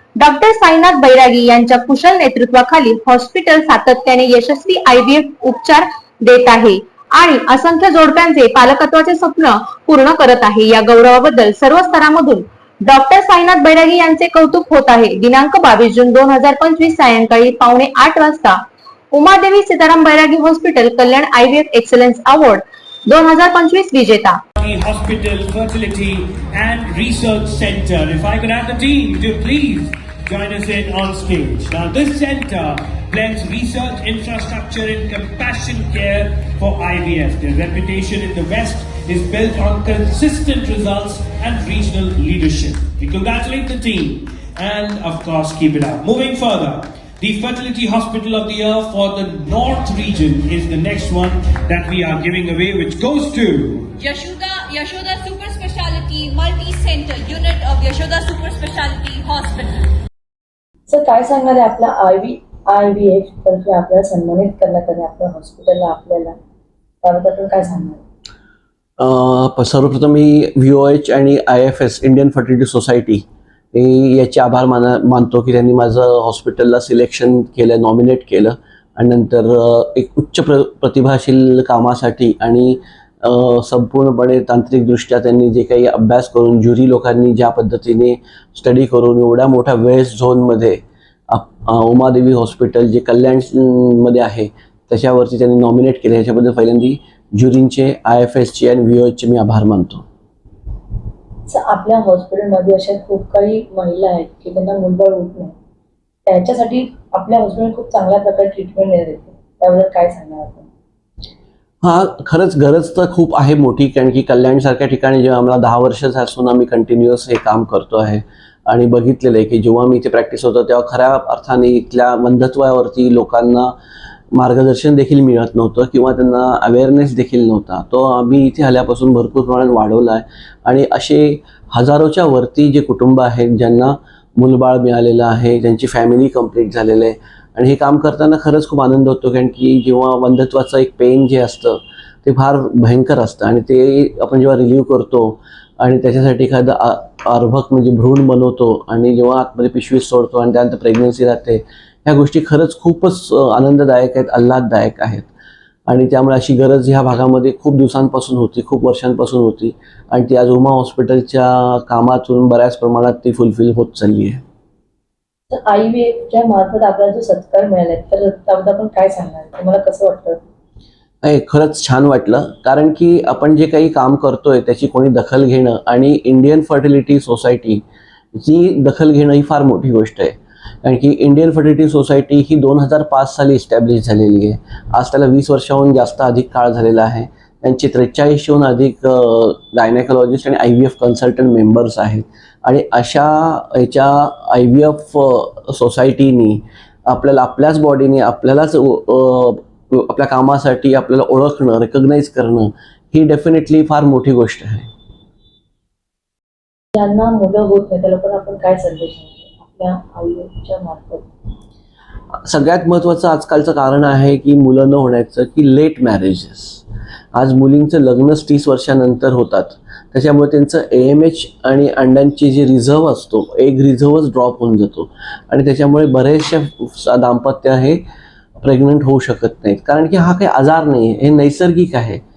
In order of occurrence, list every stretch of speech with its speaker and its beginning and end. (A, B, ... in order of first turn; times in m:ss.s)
0:00.2-0:18.6 A
0:19.1-0:24.4 A
0:24.6-0:54.0 B
0:54.0-0:59.7 C
1:00.9-1:06.3 D
1:07.0-1:08.0 D
1:09.0-1:40.0 E
1:41.5-1:45.5 D
1:46.2-1:50.7 D
1:51.8-2:03.8 E
2:04.3-2:35.3 E
2:35.9-2:44.4 E
2:45.5-2:50.4 D
2:51.2-2:57.8 E
2:58.3-3:24.9 E
3:26.9-3:31.3 D
3:32.4-3:36.8 E
3:37.3-3:48.0 E
3:48.6-3:52.2 E